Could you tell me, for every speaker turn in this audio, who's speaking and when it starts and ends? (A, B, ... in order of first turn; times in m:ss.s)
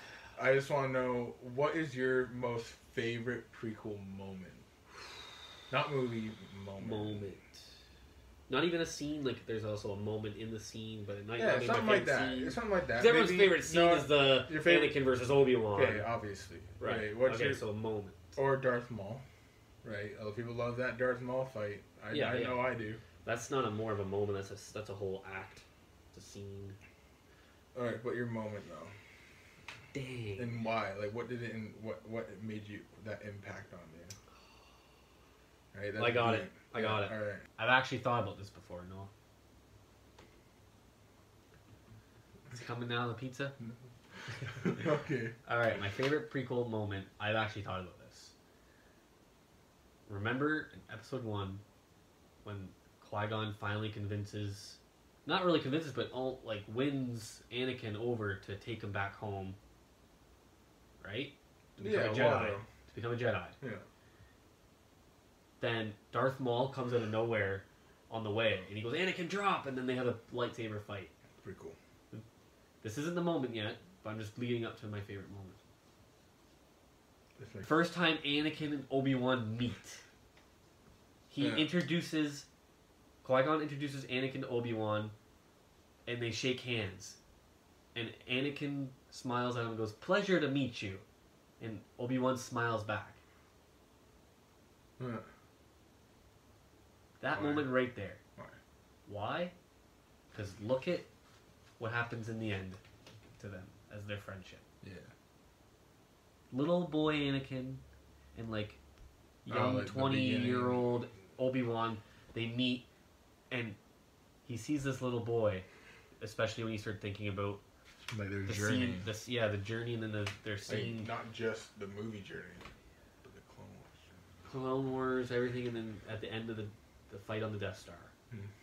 0:00.4-0:04.6 A
0:05.7-0:07.3 A
0:06.8-0:07.6 B
0:08.5-0:16.1 B
0:11.4-0:15.0 A
0:15.7-0:17.6 A
0:16.8-0:18.4 B
0:18.4-0:19.2 A
0:19.8-0:23.0 A
0:22.1-0:22.7 B
0:23.2-0:26.8 B
0:27.7-0:28.9 A
0:29.9-0:30.7 B
0:30.4-0:34.2 A
0:35.7-0:37.4 A
0:36.0-0:39.1 B
0:42.5-0:43.6 B
0:44.5-0:45.4 A
0:45.4-0:48.3 B
0:50.1-0:51.6 B
0:52.4-0:59.6 B
1:01.0-1:03.6 B
1:01.8-1:02.6 A
1:05.6-1:11.1 B
1:11.4-1:11.8 A
1:12.8-1:15.6 B
1:17.4-1:17.8 A
1:17.6-1:20.0 B
1:21.3-1:22.5 B
1:21.4-1:21.7 A
1:23.2-1:25.1 B
1:26.1-1:27.2 B
1:27.9-1:31.0 B
1:31.6-1:33.2 B
1:35.0-1:35.3 A
1:37.2-1:38.2 B
1:37.3-1:37.8 A
1:39.1-1:39.6 B
1:40.3-1:41.1 B
1:41.8-1:42.8 B
1:43.4-1:44.6 B
1:44.8-1:45.1 A
1:46.5-1:47.8 B
1:48.4-1:48.8 B
1:49.4-1:52.9 B
1:49.5-1:50.9 A
1:53.5-1:53.8 B
1:54.5-1:55.7 B
1:56.2-1:57.6 B
1:58.0-1:59.1 A
1:58.5-2:01.1 B
2:00.7-2:02.7 A
2:03.2-2:04.0 A
2:04.4-2:08.1 B